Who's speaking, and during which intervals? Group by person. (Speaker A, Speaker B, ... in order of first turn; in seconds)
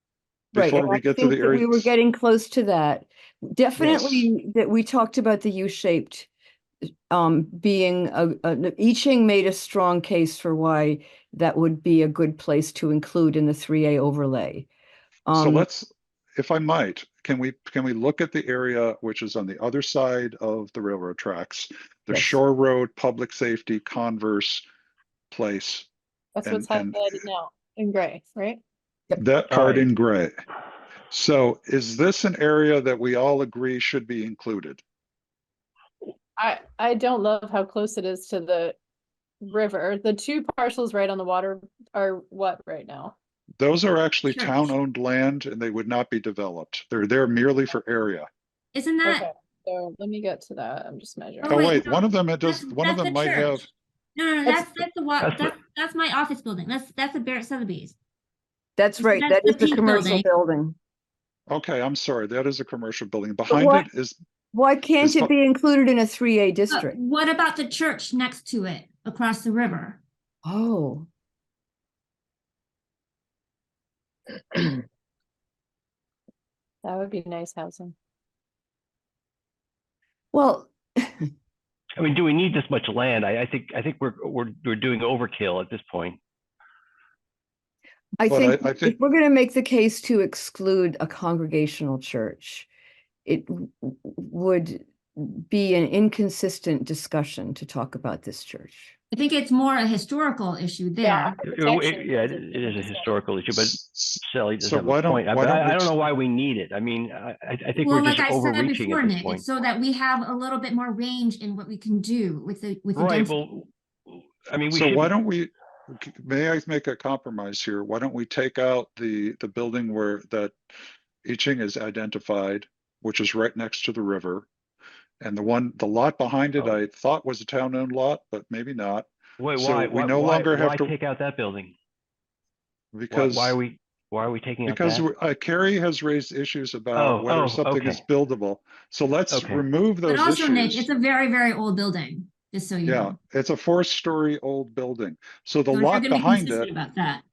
Speaker A: 0.5-6.3, 7.1-14.7, 15.3-15.7, 22.1-22.4, 54.5-54.7, 58.8-60.8, 63.5-63.9, 64.5-67.0, 70.4-71.1, 80.3-81.3, 88.2-92.7, 93.3-98.9
Speaker B: 0.5-1.9, 3.8-4.3, 15.3-24.6, 25.3-25.9, 26.4-27.2, 29.2-30.4, 31.1-34.8, 43.6-48.3, 51.5-53.7, 61.5-64.2, 65.0-65.3, 88.3-89.0, 103.5-106.0, 114.7-120.6, 121.2-124.5, 125.2-130.9, 132.9-133.6, 134.7-140.9, 142.8-146.7
Speaker C: 26.4-28.6, 36.4-38.8, 39.4-43.1, 49.0-51.7, 76.8-77.9, 101.0-103.2
Speaker D: 29.5-29.9, 55.2-55.5, 82.0-86.2, 101.4-109.4, 113.0-115.1, 129.4-131.7, 133.1-135.1, 136.9-138.0, 139.3-139.6
Speaker E: 44.3-44.7, 48.7-49.3, 51.4-58.0, 59.0-60.3, 66.7-70.0, 99.1-101.4, 107.8-113.3, 140.1-143.2, 145.7-147.2